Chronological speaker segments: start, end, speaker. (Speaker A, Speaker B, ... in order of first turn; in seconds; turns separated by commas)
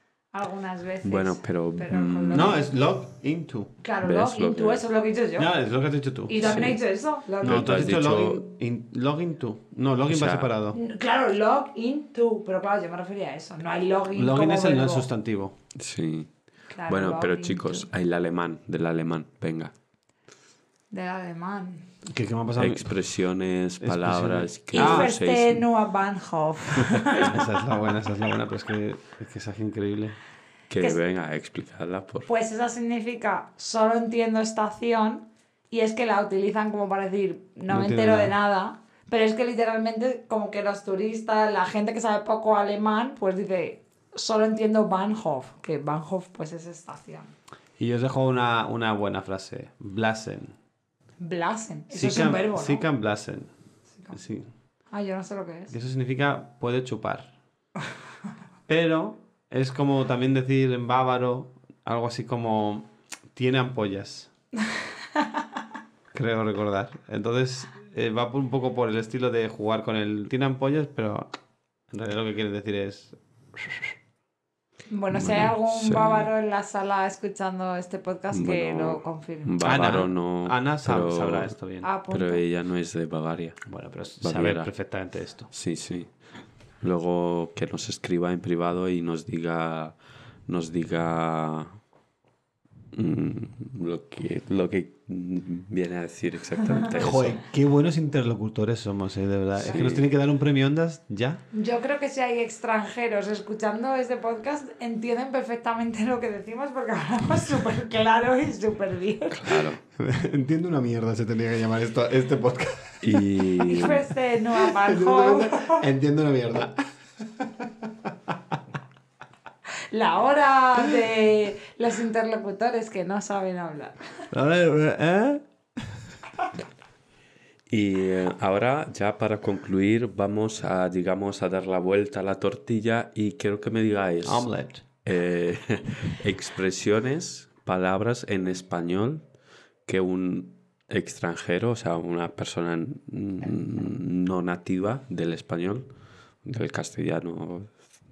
Speaker A: 0.3-2.7, Speaker B: 1.0-2.6, Speaker C: 2.3-3.8, Speaker A: 3.8-5.5, Speaker B: 4.0-4.8, Speaker C: 5.4-6.6, Speaker A: 6.3-7.9, Speaker B: 6.4-6.8, Speaker B: 7.4-8.4, Speaker C: 7.4-10.8, Speaker B: 10.1-10.5, Speaker A: 10.7-15.1, Speaker C: 14.1-15.6, Speaker B: 15.8-16.3, Speaker A: 16.7-17.9, Speaker B: 16.9-19.7, Speaker A: 20.9-21.9, Speaker C: 22.1-22.9, Speaker B: 22.6-25.7, Speaker C: 23.8-25.1, Speaker A: 24.7-27.3, Speaker C: 27.1-30.2, Speaker B: 30.7-32.3, Speaker A: 32.3-47.3, Speaker C: 37.7-38.4, Speaker C: 47.8-50.5, Speaker A: 51.2-52.9, Speaker C: 51.9-53.5, Speaker C: 54.1-54.5, Speaker A: 54.9-55.7, Speaker C: 55.7-57.3, Speaker C: 58.7-64.3, Speaker C: 66.1-71.3, Speaker C: 71.9-74.0, Speaker A: 74.9-79.7, Speaker B: 75.1-76.3, Speaker B: 78.3-81.5, Speaker C: 79.6-81.9, Speaker A: 81.8-82.4, Speaker B: 82.1-83.6, Speaker C: 83.7-85.5, Speaker B: 84.2-84.7, Speaker B: 85.5-86.1, Speaker B: 86.8-91.8, Speaker B: 92.9-97.4, Speaker C: 97.0-101.4, Speaker B: 99.6-100.0, Speaker A: 101.5-109.7, Speaker B: 109.3-109.8, Speaker C: 110.0-113.3, Speaker B: 113.0-114.1, Speaker A: 113.6-115.8, Speaker C: 114.5-118.6, Speaker A: 119.9-124.0, Speaker C: 124.3-126.0, Speaker B: 127.7-134.5, Speaker C: 134.2-134.8, Speaker B: 135.0-139.3, Speaker B: 139.9-145.9, Speaker B: 146.4-147.7